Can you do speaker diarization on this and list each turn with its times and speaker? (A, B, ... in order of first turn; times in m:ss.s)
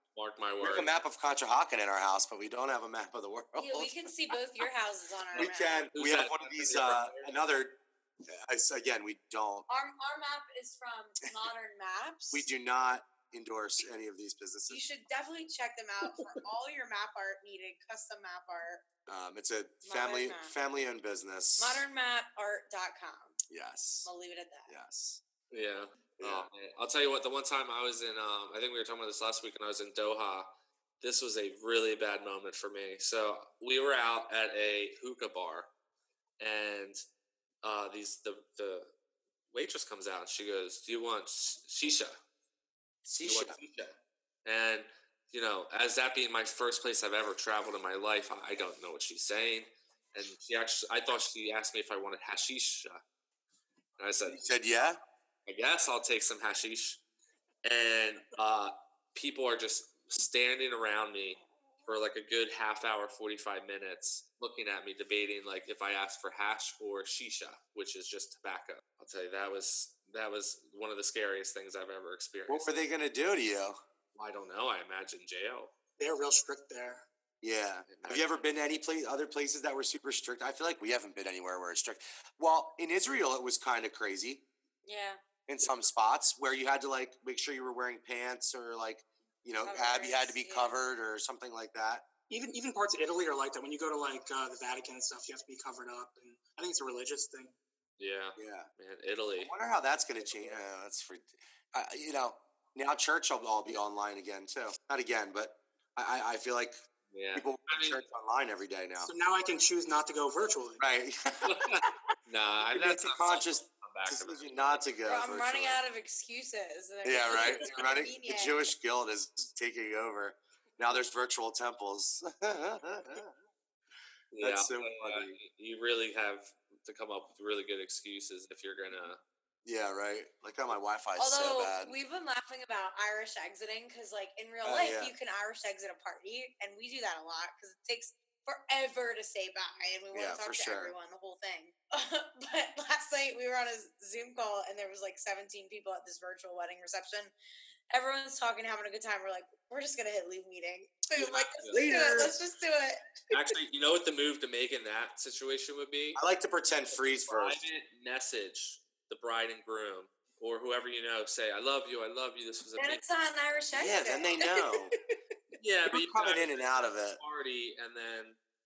0:00.1-0:00.9 A
0:00.6-0:04.0 B
0:03.6-0:05.9 C
0:05.3-0:07.4 A
0:05.3-0:09.7 B
0:09.7-0:12.5 C
0:12.3-0:14.8 B
0:14.7-0:18.8 C
0:19.1-0:21.8 B
0:19.8-0:20.5 C
0:21.6-0:23.4 C
0:23.5-0:24.1 B
0:24.0-0:24.7 C
0:24.7-0:25.2 B
0:25.5-0:30.5 A
0:26.2-0:26.5 B
0:31.0-0:35.7 A
0:36.4-0:37.0 A
0:37.6-0:38.9 A
0:39.5-0:42.1 A
0:43.0-0:43.6 B
0:43.2-0:53.0 A
0:54.0-0:54.4 A
0:54.2-0:55.0 B
0:55.4-0:57.0 A
0:57.6-1:12.7 A
1:12.5-1:13.8 B
1:14.1-1:15.7 A
1:16.0-1:17.0 D
1:17.4-1:24.4 B
1:17.9-1:18.3 A
1:24.8-1:25.2 C
1:25.5-1:32.0 B
1:29.6-1:30.9 C
1:32.3-1:37.6 D
1:38.0-1:39.5 A
1:38.4-1:38.7 B
1:39.4-1:46.8 B
1:40.2-1:40.6 A
1:47.1-1:48.0 A
1:47.3-1:49.1 B
1:49.0-1:50.8 D
1:50.8-1:51.9 B
1:51.4-1:51.7 A
1:52.3-1:54.9 A
1:52.7-1:55.8 B
1:55.0-1:58.7 C
1:57.0-2:03.3 B
1:57.3-1:57.7 A
2:04.3-2:09.2 A
2:04.4-2:05.4 B
2:09.6-2:12.0 B
2:11.2-2:27.3 C
2:14.6-2:15.1 B
2:20.1-2:20.9 B
2:27.9-2:33.0 C
2:31.2-2:31.8 A
2:31.7-2:32.4 B
2:33.3-2:36.2 A
2:36.2-2:37.6 B
2:36.9-2:43.0 A
2:42.8-2:44.7 C
2:43.7-2:44.9 B
2:45.6-2:48.4 A
2:45.9-2:47.2 B